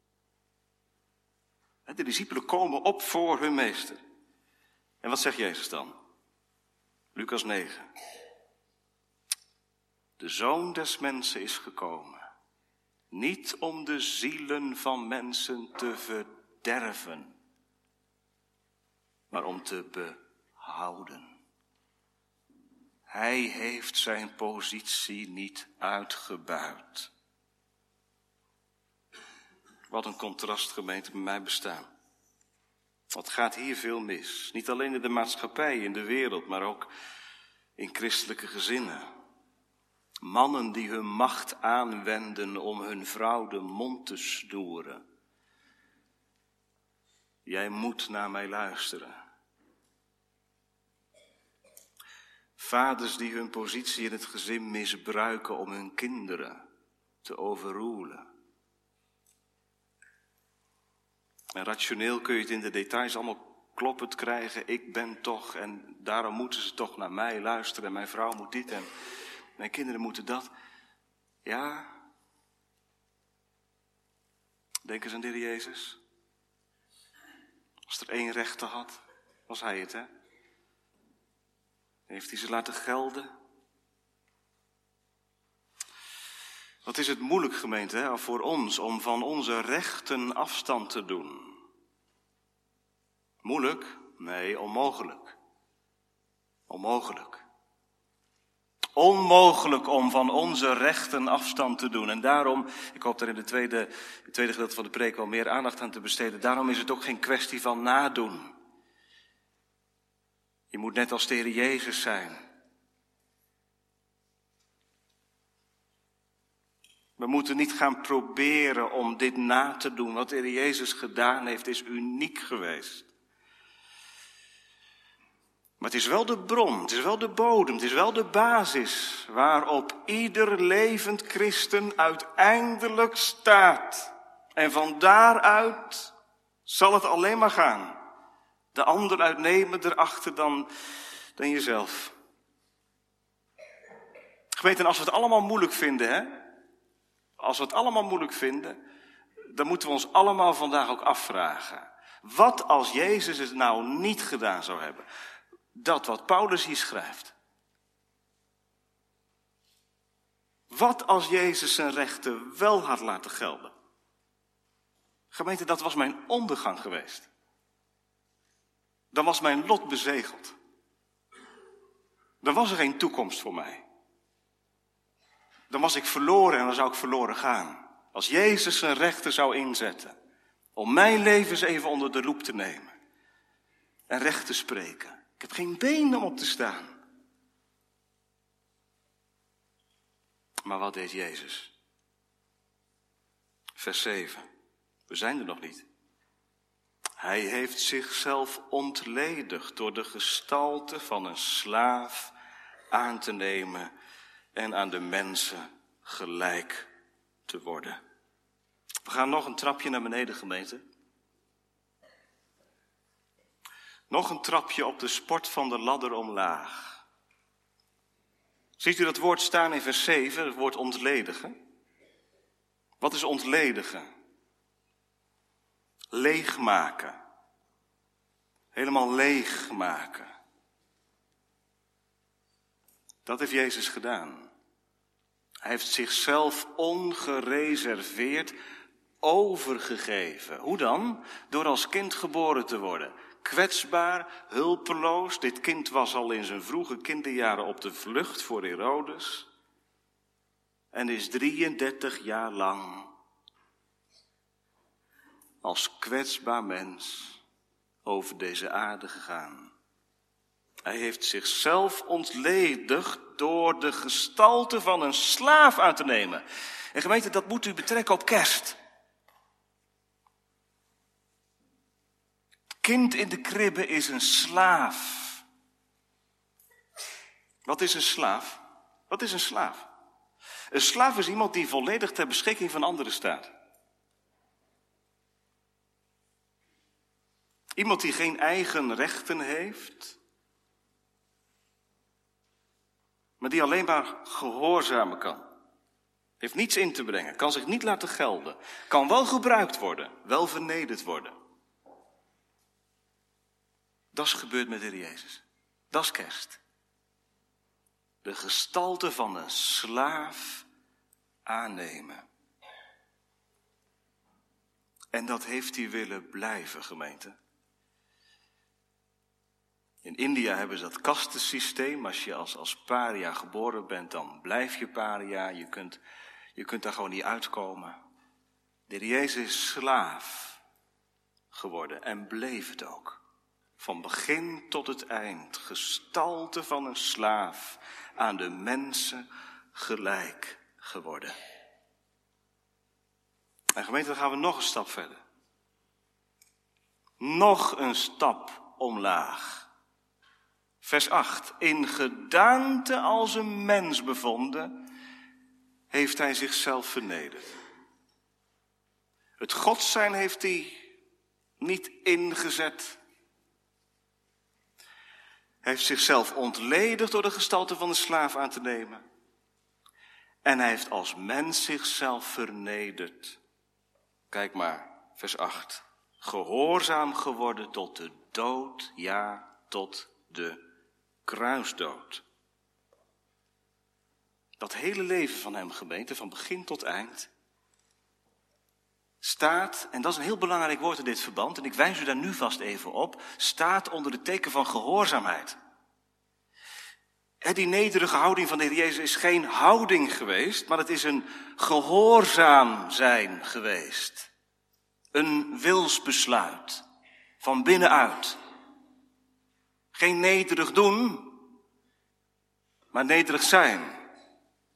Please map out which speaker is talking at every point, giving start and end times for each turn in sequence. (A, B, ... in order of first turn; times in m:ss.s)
0:01.8-0:04.0 A
0:05.0-0:05.9 A
0:07.1-0:07.8 A
0:10.2-0:12.2 A
0:13.1-0:17.4 A
0:19.3-0:21.4 A
0:23.1-0:27.1 A
0:29.9-0:31.9 A
0:33.1-0:36.9 A
0:37.8-0:39.1 A
0:40.2-0:45.0 A
0:47.4-0:49.2 A
0:52.6-0:56.6 A
0:57.2-0:58.3 A
1:01.5-1:08.9 A
1:09.6-1:10.5 A
1:11.4-1:11.9 A
1:14.8-1:16.0 A
1:17.9-1:20.1 A
1:22.1-1:23.3 A
1:26.8-1:31.6 A
1:33.4-1:35.4 A
1:36.7-1:37.4 A
1:39.0-1:48.5 A
1:50.7-1:52.4 A
1:57.2-2:03.1 A
2:05.8-2:16.1 A
2:16.6-2:18.0 A
2:18.7-2:20.7 A
2:21.4-2:22.1 A
2:24.6-2:26.5 A
2:27.4-2:28.8 A
2:29.5-2:35.0 A
2:35.7-2:37.3 A
2:40.7-2:43.7 A
2:45.3-2:47.3 A
2:49.1-2:50.5 A
2:52.4-2:53.8 A
2:55.7-3:00.1 A
3:00.8-3:02.9 A
3:04.1-3:06.9 A
3:10.6-3:11.7 A
3:13.8-3:14.5 A
3:15.1-3:15.9 A
3:17.2-3:22.3 A
3:22.9-3:23.9 A
3:24.5-3:26.9 A
3:27.5-3:28.0 A
3:29.0-3:30.8 A
3:34.1-3:37.0 A
3:38.8-3:41.6 A
3:43.0-3:44.1 A
3:46.1-3:47.2 A
3:48.7-3:50.3 A
3:53.2-3:54.5 A
3:55.6-3:58.6 A
3:59.2-4:09.5 A
4:10.9-4:13.1 A
4:15.6-4:17.4 A
4:18.0-4:19.7 A
4:20.8-4:28.8 A
4:32.8-4:35.4 A
4:37.6-4:39.9 A
4:40.7-4:43.5 A
4:47.8-4:50.2 A
4:53.4-4:55.4 A
4:56.4-5:01.3 A
5:04.1-5:06.6 A
5:08.2-5:10.6 A
5:11.4-5:12.2 A
5:15.1-5:17.4 A
5:20.0-5:26.0 A
5:26.5-5:28.0 A
5:28.9-5:30.6 A
5:31.5-5:33.2 A
5:33.8-5:41.3 A
5:43.8-5:45.2 A
5:47.2-5:49.7 A
5:50.8-5:54.8 A
5:55.9-5:57.5 A
5:59.4-6:00.9 A
6:01.6-6:03.0 A
6:05.6-6:09.0 A
6:10.4-6:13.4 A
6:14.3-6:20.6 A
6:21.2-6:22.2 A
6:24.6-6:27.3 A
6:29.2-6:35.6 A
6:37.4-6:44.3 A
6:45.1-6:46.8 A
6:47.4-6:48.4 A
6:49.9-6:51.5 A
6:52.9-6:54.0 A